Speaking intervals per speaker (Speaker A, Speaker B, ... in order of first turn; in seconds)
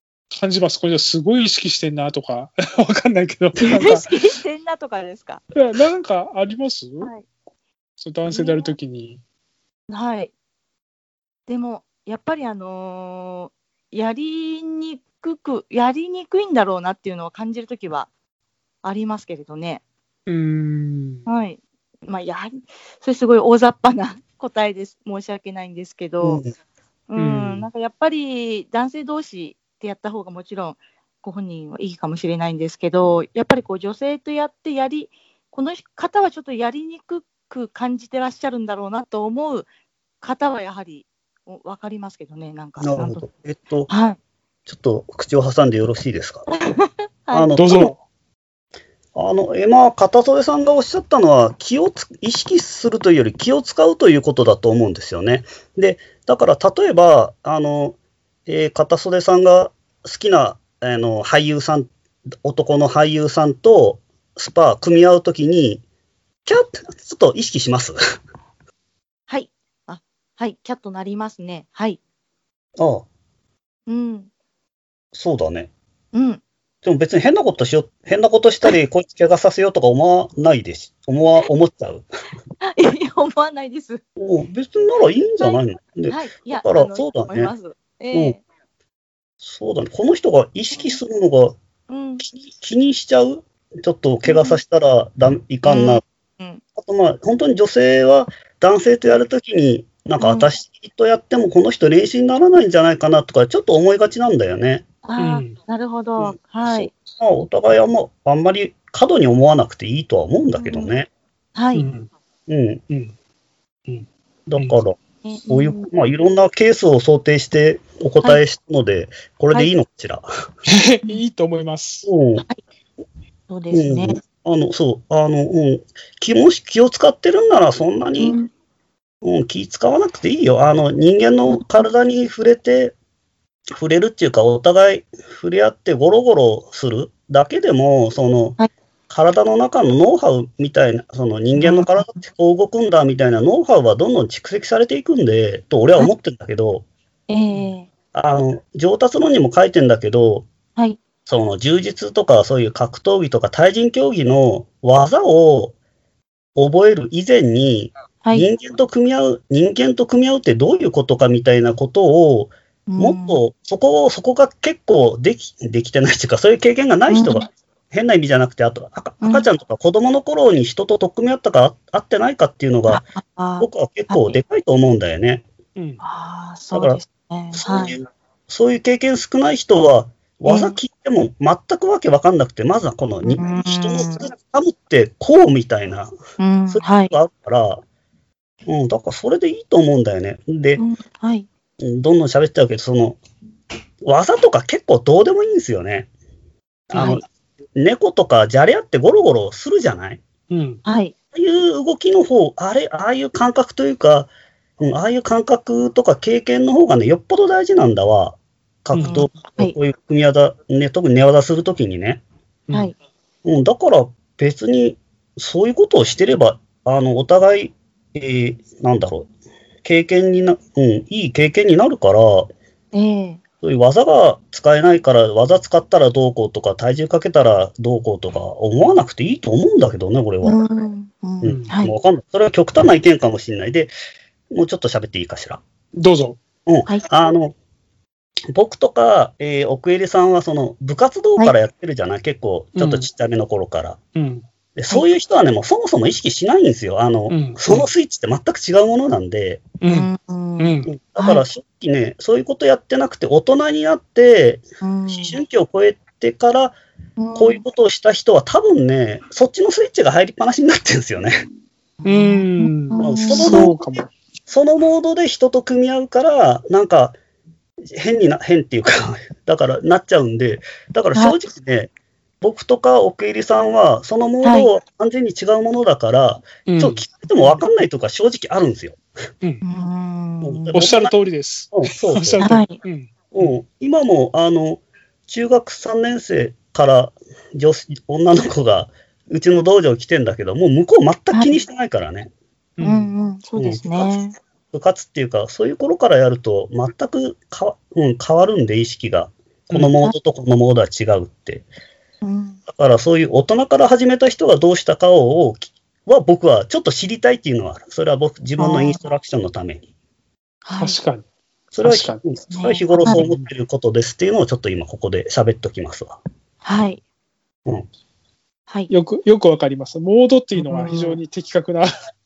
Speaker A: 0.3-4.0, 5.5-7.1, 8.0-9.2, 20.2-21.3, 27.2-27.7, 47.5-48.0, 105.2-105.6, 111.7-112.1, 112.9-113.1, 113.9-114.7, 120.7-122.1, 175.7-176.0, 196.9-197.2, 200.5-200.8, 208.9-209.2, 231.4-231.7, 235.9-236.4, 242.7-243.1, 244.1-244.4, 247.3-247.8, 249.8-250.9, 262.0-264.1, 276.7-277.6, 280.7-283.6, 292.8-293.1, 299.7-300.0, 310.8-311.2, 311.8-312.2, 313.0-313.5, 318.9-321.9
Speaker B: 3.6-5.4, 8.3-8.7, 9.9-10.3, 11.5-18.1, 18.8-19.8, 21.2-26.4, 27.1-39.6, 40.2-43.2, 43.9-44.2, 46.5-47.5, 69.3-72.0, 73.9-74.3, 76.1-76.4, 82.8-84.0, 85.4-88.4, 91.9-92.2, 94.2-94.6, 95.6-96.6, 100.2-100.5, 105.0-106.9, 110.5-111.0, 111.5-111.9, 115.2-115.9, 123.5-124.2, 128.2-128.5, 131.5-131.8, 141.6-142.0, 147.3-147.9, 158.2-158.5, 162.9-163.4, 167.1-167.4, 169.2-169.5, 172.9-174.4, 176.0-177.9, 180.4-180.8, 183.2-184.3, 186.4-187.1, 190.8-191.4, 196.9-197.2, 200.8-201.1, 209.0-209.8, 222.9-223.4, 230.4-231.9, 249.9-251.4, 254.8-255.4, 257.2-257.6, 262.0-263.7, 274.4-274.7, 279.6-280.9, 282.4-282.8, 291.3-291.6, 292.8-294.3, 302.2-302.6, 308.6-309.0, 310.6-311.0, 312.5-313.2, 316.6-317.0, 320.6-321.2
Speaker C: 26.2-26.5, 42.8-43.9, 44.7-46.5, 47.3-47.9, 49.1-61.9, 62.4-65.8, 66.4-68.0, 72.8-73.0, 75.1-75.7, 76.8-82.0, 84.2-87.5, 89.4-91.6, 92.2-96.0, 96.8-104.8, 106.2-111.1, 112.5-112.8, 114.5-120.2, 122.0-122.4, 123.7-128.4, 129.2-132.9, 133.8-138.6, 139.1-146.8, 148.1-150.5, 151.2-155.7, 156.6-173.0, 173.6-175.4, 176.7-177.0, 177.5-186.1, 186.7-187.8, 188.7-190.8, 191.8-193.2, 194.0-196.1, 196.9-197.2, 197.8-200.2, 201.3-212.2, 213.4-219.3, 219.8-222.5, 223.6-230.6, 231.4-233.9, 234.5-235.6, 236.7-237.6, 238.5-244.0, 244.8-249.7, 250.9-256.8, 257.3-261.3, 263.0-263.8, 264.5-267.2, 267.9-271.9, 272.4-279.0, 280.4-281.1, 281.7-282.6, 283.3-292.3, 293.6-294.2, 294.7-301.6, 302.7-309.8, 311.7-316.2